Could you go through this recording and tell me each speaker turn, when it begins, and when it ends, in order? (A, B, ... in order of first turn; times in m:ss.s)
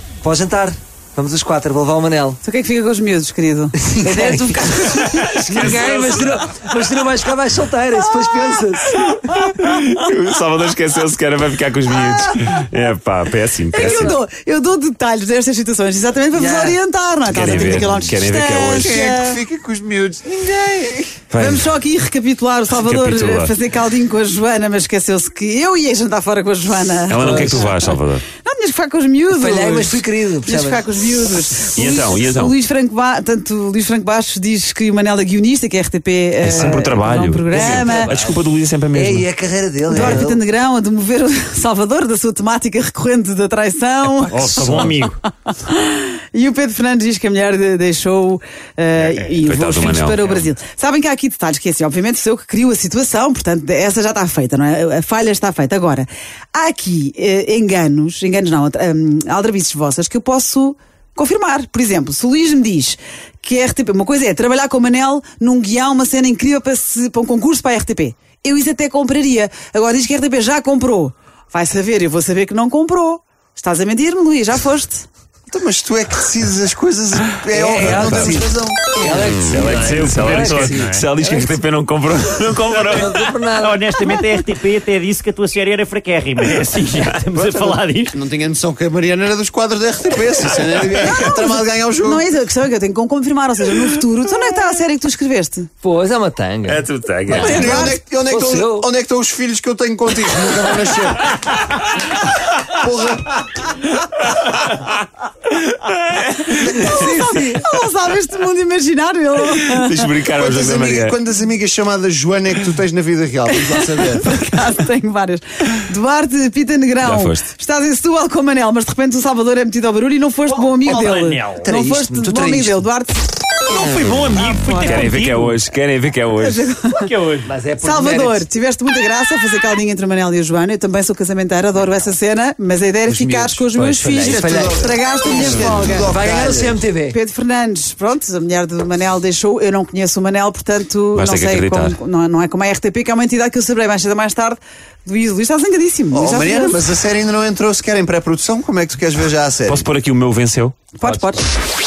0:00.2-0:02.4 A
0:02.4-0:06.1 B
0:03.9-0:09.0 A
0:05.5-0:06.0 C
0:09.0-0:14.2 C
0:13.7-0:19.4 B
0:16.3-0:16.8 A
0:17.2-0:19.0 C
0:17.3-0:18.1 A
0:18.7-0:21.2 D
0:21.3-0:21.6 C
0:21.4-0:38.1 B
0:22.8-0:23.5 C
0:27.1-0:28.2 C
0:27.2-0:27.8 A
0:29.3-0:30.8 A
0:31.8-0:32.5 C
0:36.4-0:39.3 C
0:36.5-0:36.9 A
0:37.5-0:38.4 A
0:38.9-0:40.4 A
0:39.9-0:44.8 B
0:44.3-0:45.2 E
0:44.5-0:44.8 A
0:45.5-1:15.1 B
0:49.0-0:49.3 E
0:49.4-0:50.3 C
1:15.5-1:19.1 D
1:17.5-1:21.6 A
1:17.9-1:18.5 C
1:19.1-1:23.3 C
1:20.1-1:21.0 E
1:22.9-1:23.8 A
1:23.5-1:28.2 E
1:27.4-1:32.2 D
1:31.0-1:35.7 B
1:35.8-1:38.9 A
1:36.6-1:38.0 C
1:37.3-1:38.0 B
1:37.4-1:41.3 D
1:42.7-1:43.7 D
1:45.6-1:46.7 C
1:46.5-1:50.1 B
1:46.9-1:47.4 A
1:49.6-1:51.2 C
1:50.4-1:54.4 D
1:53.5-2:03.2 B
1:57.0-1:57.4 C
2:00.5-2:01.7 E
2:01.6-2:02.8 A
2:03.7-2:05.6 E
2:04.4-2:05.1 B
2:04.8-2:06.7 C
2:06.4-2:07.1 B
2:06.9-2:07.5 E
2:07.4-2:08.4 A
2:07.8-2:26.8 B
2:13.1-2:17.1 A
2:14.1-2:16.8 D
2:21.1-2:22.0 C
2:26.1-2:29.8 D
2:29.7-2:30.9 C
2:31.0-2:31.4 B
2:31.0-2:31.3 A